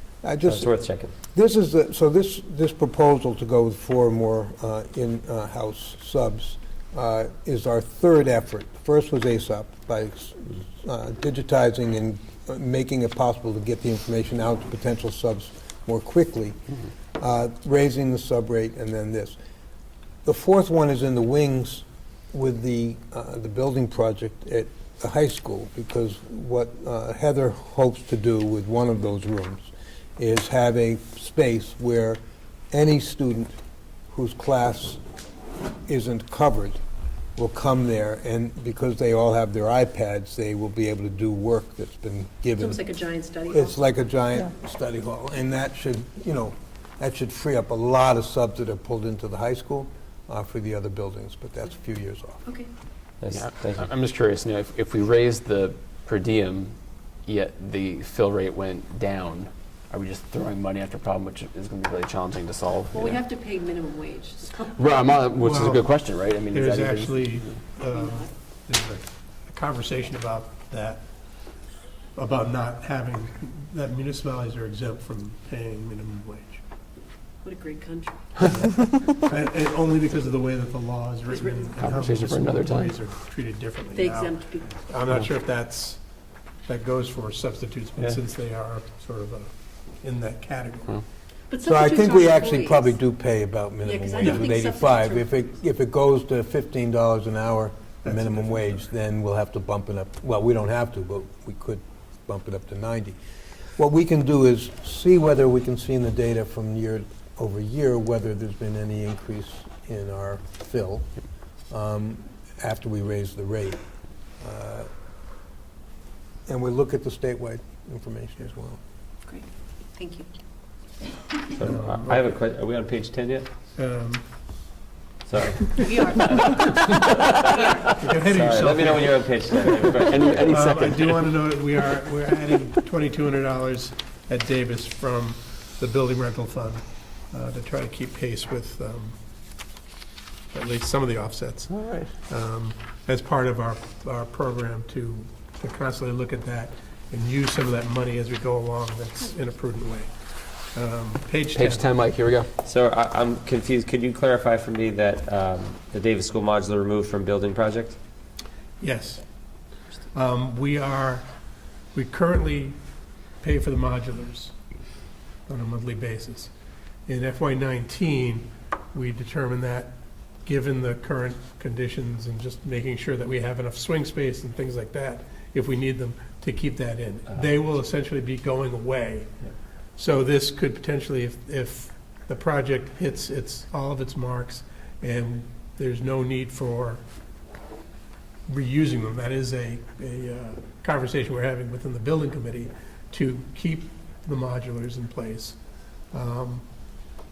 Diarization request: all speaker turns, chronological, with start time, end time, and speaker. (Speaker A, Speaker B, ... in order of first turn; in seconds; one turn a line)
Speaker A: 0.2-0.7
Speaker B: 0.5-1.1
Speaker A: 1.3-16.6
Speaker A: 17.2-19.4
Speaker A: 20.2-32.2
Speaker A: 32.7-33.5
Speaker A: 34.1-35.0
Speaker A: 35.9-36.8
Speaker A: 37.4-42.9
Speaker C: 42.6-43.8
Speaker A: 43.5-52.5
Speaker B: 53.2-53.9
Speaker D: 53.3-56.7
Speaker D: 57.3-63.2
Speaker C: 62.9-64.7
Speaker D: 64.6-67.4
Speaker E: 65.4-65.8
Speaker E: 66.5-71.0
Speaker C: 67.9-68.3
Speaker E: 72.2-76.6
Speaker C: 77.4-78.5
Speaker E: 78.5-86.0
Speaker C: 81.3-81.8
Speaker D: 81.8-83.0
Speaker C: 83.9-84.8
Speaker E: 86.7-89.5
Speaker E: 90.0-91.0
Speaker C: 91.5-92.9
Speaker A: 91.6-103.2
Speaker C: 93.8-95.3
Speaker E: 94.2-94.5
Speaker E: 98.0-98.8
Speaker A: 103.8-111.1
Speaker A: 111.7-113.8
Speaker A: 114.4-114.9
Speaker A: 116.5-118.8
Speaker C: 119.3-120.3
Speaker B: 121.5-123.5
Speaker E: 121.6-122.4
Speaker E: 123.8-124.2
Speaker B: 125.3-130.6
Speaker C: 125.8-126.3
Speaker E: 126.2-126.6
Speaker C: 127.4-127.9
Speaker E: 127.9-139.2
Speaker D: 130.1-131.1
Speaker E: 140.5-150.1
Speaker D: 141.8-142.1
Speaker E: 150.8-151.8
Speaker D: 151.6-152.5
Speaker B: 152.6-158.0
Speaker E: 158.8-159.2
Speaker E: 160.1-161.3
Speaker E: 161.9-162.8
Speaker E: 163.4-164.5
Speaker E: 165.5-166.5
Speaker E: 167.1-179.3
Speaker E: 180.0-187.0
Speaker E: 188.5-195.6
Speaker E: 196.1-196.7